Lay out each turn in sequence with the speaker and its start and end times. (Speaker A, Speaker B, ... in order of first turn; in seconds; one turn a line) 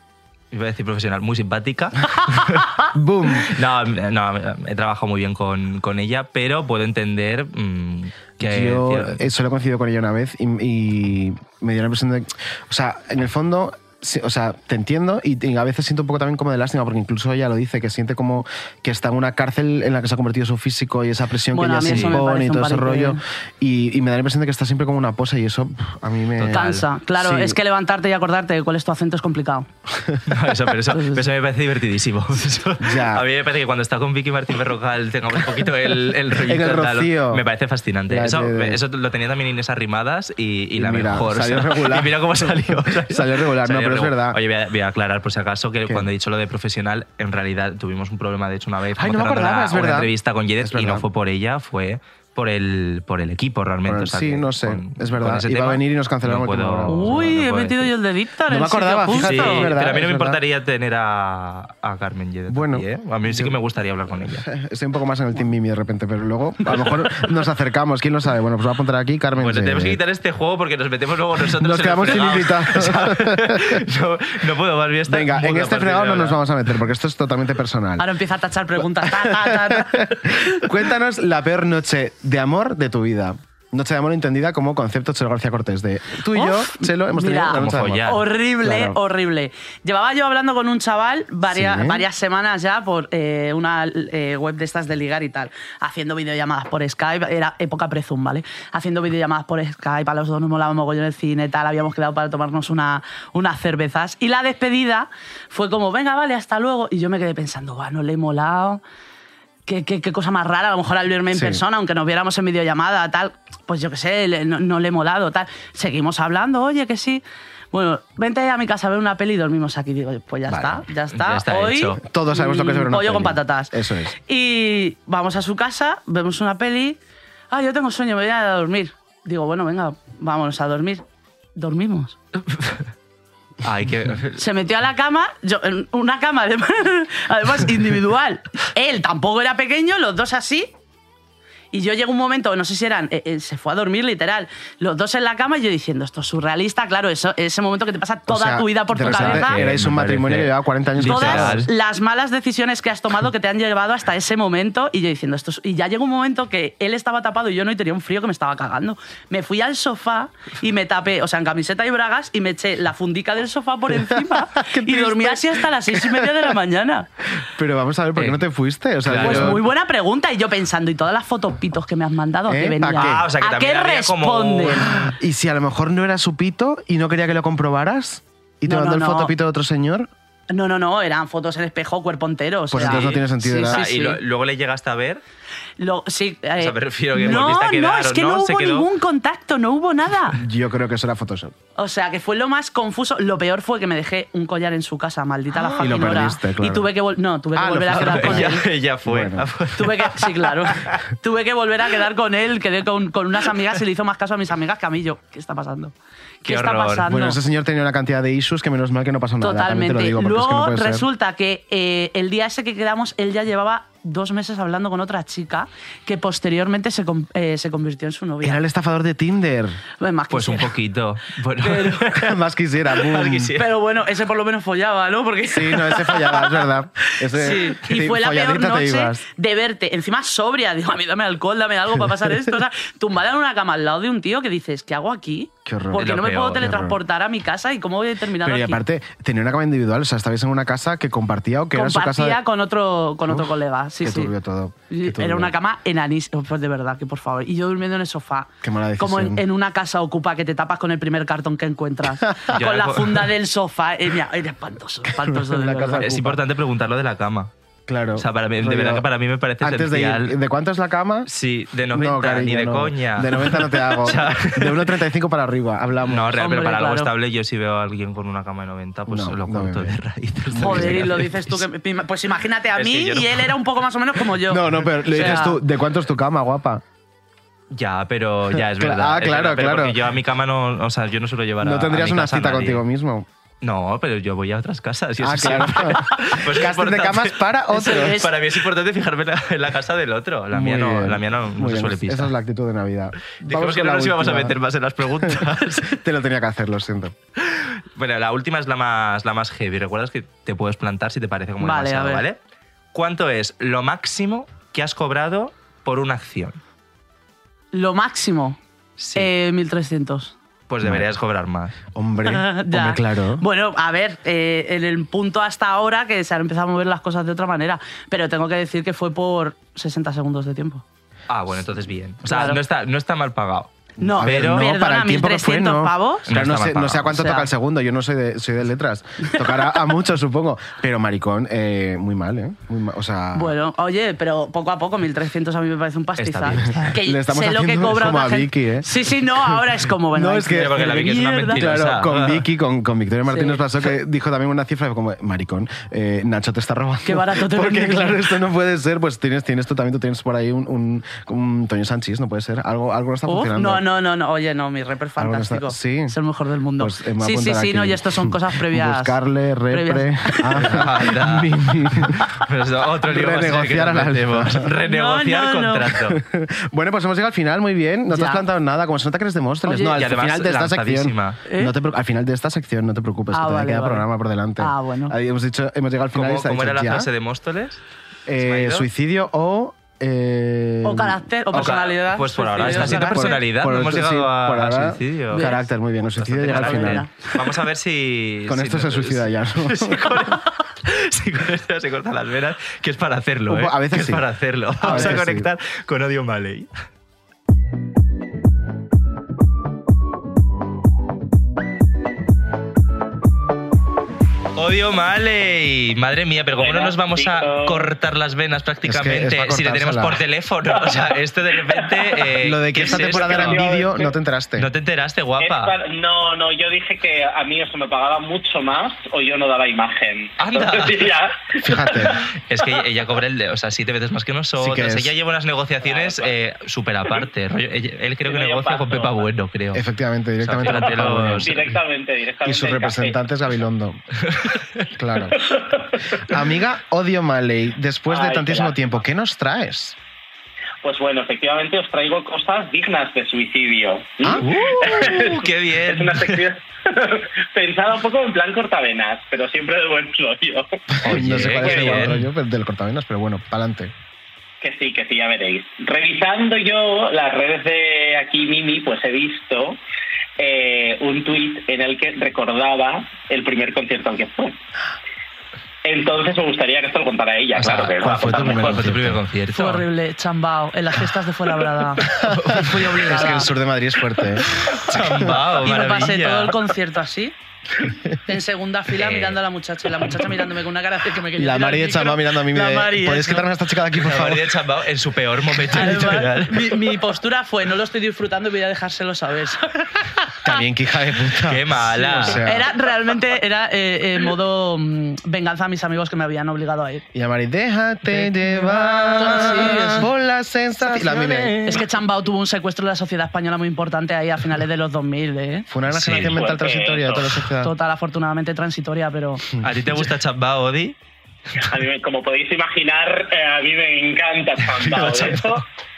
Speaker A: 0.5-2.8
Speaker B: 2.9-3.5
Speaker A: 3.4-9.2
Speaker B: 8.4-26.6
Speaker C: 21.5-23.2
Speaker A: 21.9-22.2
Speaker A: 26.4-26.9
Speaker C: 26.5-29.7
Speaker B: 27.2-27.6
Speaker A: 30.3-57.9
Speaker C: 30.9-31.2
Speaker B: 32.8-33.2
Speaker B: 36.3-37.4
Speaker B: 38.1-38.8
Speaker B: 40.8-44.4
Speaker B: 49.0-51.0
Speaker B: 53.9-57.3
Speaker C: 56.9-59.7
Speaker B: 58.5-60.4
Speaker A: 59.1-64.5
Speaker B: 62.5-63.5
Speaker B: 64.2-70.0
Speaker A: 69.4-76.4
Speaker B: 71.5-73.8
Speaker B: 75.1-78.1
Speaker C: 78.0-80.6
Speaker B: 78.9-89.0
Speaker C: 86.3-108.8
Speaker A: 87.5-88.2
Speaker B: 91.5-92.0
Speaker C: 109.7-123.7
Speaker B: 111.3-111.6
Speaker B: 120.5-120.8
Speaker A: 121.1-122.0
Speaker B: 122.0-124.2
Speaker C: 124.3-127.0
Speaker C: 127.5-131.0
Speaker C: 131.6-132.2
Speaker A: 132.5-132.8
Speaker A: 133.6-134.4
Speaker C: 134.4-140.7
Speaker C: 141.7-149.6
Speaker B: 148.3-151.6
Speaker A: 149.0-151.7
Speaker C: 151.0-167.1
Speaker B: 164.1-166.5
Speaker B: 167.4-169.6
Speaker A: 168.2-168.4
Speaker A: 169.1-169.6
Speaker C: 169.2-174.9
Speaker B: 172.5-173.3
Speaker A: 172.9-175.0
Speaker B: 174.8-180.1
Speaker C: 178.7-179.3
Speaker C: 180.5-184.2
Speaker B: 182.7-183.8
Speaker A: 182.8-185.2
Speaker C: 185.8-190.4
Speaker A: 186.6-188.9
Speaker B: 190.3-191.5
Speaker C: 191.8-198.6
Speaker B: 195.8-196.9
Speaker B: 197.6-199.5
Speaker A: 197.9-201.0
Speaker C: 199.8-207.4
Speaker A: 206.4-207.1
Speaker B: 207.1-211.1
Speaker C: 209.4-218.6
Speaker B: 218.4-219.8
Speaker C: 220.0-220.7
Speaker A: 220.3-222.3
Speaker C: 221.6-222.1
Speaker B: 222.1-223.6
Speaker A: 223.0-223.7
Speaker C: 223.6-226.7
Speaker B: 225.5-229.2
Speaker C: 227.3-238.8
Speaker B: 235.7-237.0
Speaker A: 236.0-236.7
Speaker B: 238.4-242.4
Speaker C: 241.7-244.3
Speaker B: 243.3-245.5
Speaker C: 244.9-256.1
Speaker B: 248.6-249.4
Speaker B: 252.2-252.5
Speaker A: 252.5-253.3
Speaker B: 255.1-256.4
Speaker A: 256.0-257.5
Speaker B: 257.9-259.1
Speaker A: 258.2-260.4
Speaker B: 259.6-261.3
Speaker A: 261.3-264.9
Speaker B: 261.9-266.4
Speaker A: 266.1-271.6
Speaker C: 266.4-267.1
Speaker B: 269.1-270.0
Speaker B: 270.5-271.2
Speaker C: 270.6-275.6
Speaker A: 272.8-273.6
Speaker B: 274.5-276.8
Speaker A: 275.1-275.4
Speaker A: 277.7-282.8
Speaker B: 278.5-280.0
Speaker B: 281.6-283.3
Speaker A: 283.6-292.3
Speaker B: 285.2-288.2
Speaker C: 287.7-288.3
Speaker B: 290.5-294.6
Speaker A: 293.3-296.0
Speaker B: 295.9-297.1
Speaker A: 297.4-302.4
Speaker C: 301.6-302.2
Speaker A: 302.9-306.6
Speaker C: 307.7-308.6
Speaker A: 309.0-309.3
Speaker C: 309.2-310.4
Speaker A: 310.7-311.8
Speaker B: 310.8-311.1
Speaker B: 311.9-313.4
Speaker C: 312.3-320.8
Speaker A: 321.3-324.7
Speaker C: 322.3-322.6
Speaker B: 324.0-333.6
Speaker C: 324.0-326.3
Speaker A: 326.3-327.1
Speaker C: 327.1-327.5
Speaker C: 333.3-341.7
Speaker A: 336.2-337.0
Speaker B: 336.7-353.9
Speaker A: 340.5-342.5
Speaker C: 343.3-343.6
Speaker C: 347.0-348.2
Speaker C: 353.3-359.2
Speaker B: 355.2-356.2
Speaker B: 356.8-362.3
Speaker C: 359.7-360.8
Speaker A: 360.6-366.2
Speaker B: 363.0-364.7
Speaker C: 364.9-365.9
Speaker B: 366.1-377.1
Speaker C: 368.1-368.4
Speaker A: 369.7-371.4
Speaker C: 371.5-371.7
Speaker C: 373.3-374.1
Speaker C: 374.6-375.1
Speaker A: 376.1-377.8
Speaker B: 378.3-381.8
Speaker A: 378.4-378.9
Speaker C: 380.8-383.4
Speaker A: 381.5-385.5
Speaker B: 382.6-387.1
Speaker C: 385.3-385.7
Speaker A: 386.1-396.7
Speaker C: 386.5-387.2
Speaker B: 388.5-390.4
Speaker B: 393.5-394.2
Speaker C: 394.8-395.2
Speaker B: 394.8-395.5
Speaker A: 404.6-413.7
Speaker D: 406.6-407.8
Speaker B: 408.8-410.2
Speaker D: 411.7-412.0
Speaker B: 412.4-414.7
Speaker D: 412.8-414.1
Speaker A: 414.6-415.8
Speaker D: 415.4-422.1
Speaker A: 420.4-421.1
Speaker B: 421.6-422.2
Speaker A: 421.9-429.8
Speaker B: 424.6-425.1
Speaker D: 425.8-426.3
Speaker D: 428.3-429.2
Speaker B: 429.7-431.7
Speaker A: 430.4-431.7
Speaker D: 430.7-433.2
Speaker B: 432.4-434.0
Speaker A: 434.3-434.6
Speaker B: 434.9-435.4
Speaker D: 435.4-435.9
Speaker B: 436.2-440.0
Speaker D: 438.1-438.8
Speaker D: 440.8-450.7
Speaker A: 444.4-446.4
Speaker B: 451.0-453.9
Speaker A: 451.0-452.3
Speaker D: 451.6-452.0
Speaker D: 454.6-459.8
Speaker D: 460.4-464.5
Speaker D: 465.8-468.8
Speaker A: 467.6-469.9
Speaker B: 468.0-469.2
Speaker C: 469.5-472.1
Speaker A: 472.1-473.5
Speaker B: 472.2-475.2
Speaker C: 473.1-473.5
Speaker A: 474.4-476.6
Speaker C: 475.6-477.3
Speaker C: 478.3-483.5
Speaker A: 478.9-479.4
Speaker B: 481.4-484.6
Speaker A: 483.9-486.9
Speaker C: 485.7-490.1
Speaker B: 490.4-492.7
Speaker A: 491.5-492.4
Speaker C: 492.3-497.0
Speaker B: 497.1-501.6
Speaker A: 498.1-500.0
Speaker C: 499.2-500.1
Speaker A: 500.8-501.8
Speaker C: 501.6-505.7
Speaker B: 505.7-507.7
Speaker A: 505.9-506.4
Speaker D: 506.1-507.3
Speaker C: 507.6-509.4
Speaker A: 509.6-511.0
Speaker D: 511.6-515.6
Speaker B: 514.8-515.5